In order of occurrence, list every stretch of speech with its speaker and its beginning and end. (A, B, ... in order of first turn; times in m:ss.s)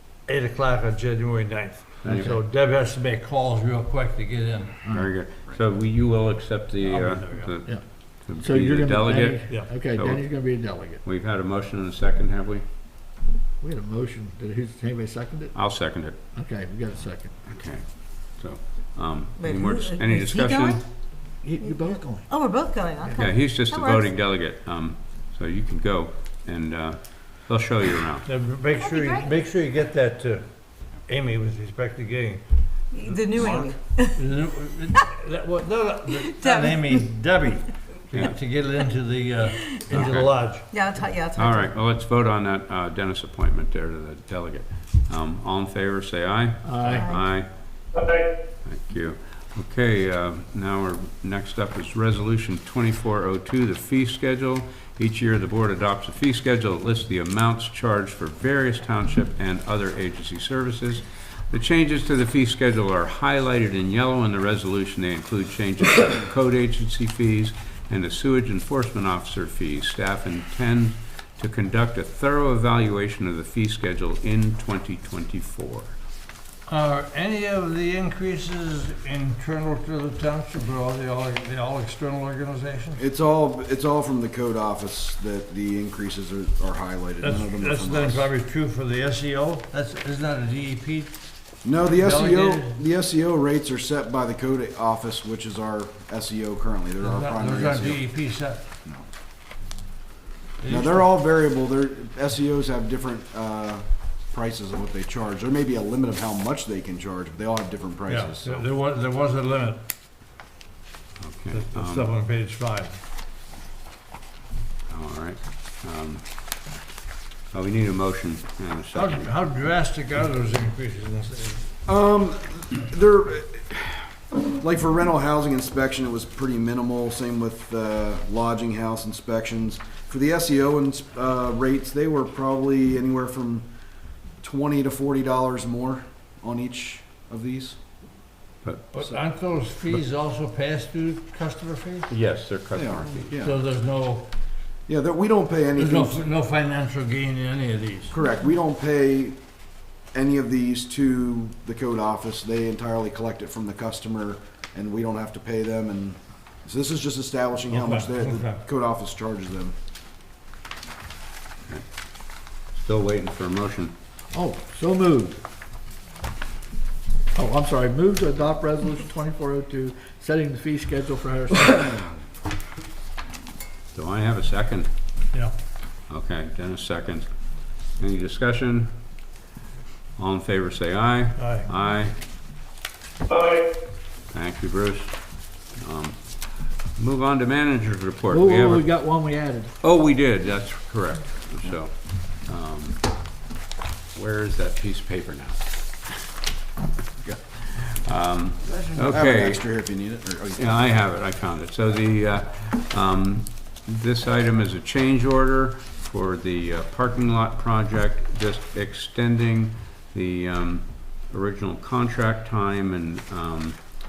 0:00.2-0:04.8 A
0:02.0-0:02.4 B
0:02.0-0:02.3 C
0:04.8-0:05.1 C
0:04.9-0:12.6 B
0:06.8-0:07.5 A
0:07.6-0:11.0 C
0:13.6-0:15.5 C
0:15.5-0:16.2 B
0:16.3-0:17.3 C
0:17.5-0:20.8 B
0:19.4-0:20.8 D
0:21.4-0:22.3 C
0:21.6-0:24.1 D
0:23.2-0:28.2 B
0:28.2-0:30.5 A
0:28.8-0:29.2 D
0:31.0-0:32.4 A
0:32.9-0:34.2 D
0:34.2-0:40.6 A
0:36.3-0:37.0 D
0:39.6-0:39.9 D
0:39.9-0:40.3 B
0:40.7-0:41.7 D
0:41.4-0:47.5 B
0:46.6-0:47.1 C
0:46.9-0:47.2 D
0:48.6-1:15.9 B
1:16.7-1:23.0 A
1:23.0-1:28.3 E
1:27.2-1:31.2 A
1:31.6-1:38.0 E
1:31.8-1:32.8 A
1:37.0-1:38.6 A
1:40.6-1:41.1 A
1:40.7-1:48.6 E
1:48.1-1:49.8 A
1:51.2-1:52.1 B
1:51.5-1:53.0 A
1:54.9-1:56.2 B
1:57.5-1:59.3 B
1:58.9-2:01.7 A
2:01.9-2:13.6 E
2:14.4-2:17.8 E
2:18.6-2:18.9 B
2:18.9-2:22.1 A
2:22.1-2:23.3 B
2:22.7-2:23.6 E
2:23.4-2:24.3 A
2:24.9-2:26.2 E
2:25.8-2:28.2 A
2:28.1-2:29.4 E
2:30.1-2:39.7 E
2:37.7-2:38.6 A
2:42.5-2:43.9 B
2:44.3-2:45.4 C
2:47.3-2:52.0 C
2:53.9-2:54.9 B
2:56.1-2:58.9 B
3:00.2-3:02.2 B
3:01.4-3:01.7 A
3:04.3-3:08.9 B
3:08.3-3:09.7 C
3:09.8-3:13.0 B
3:14.1-3:16.2 B
3:17.2-3:19.6 B
3:18.7-3:19.2 A
3:19.1-3:20.8 E
3:20.6-3:33.8 B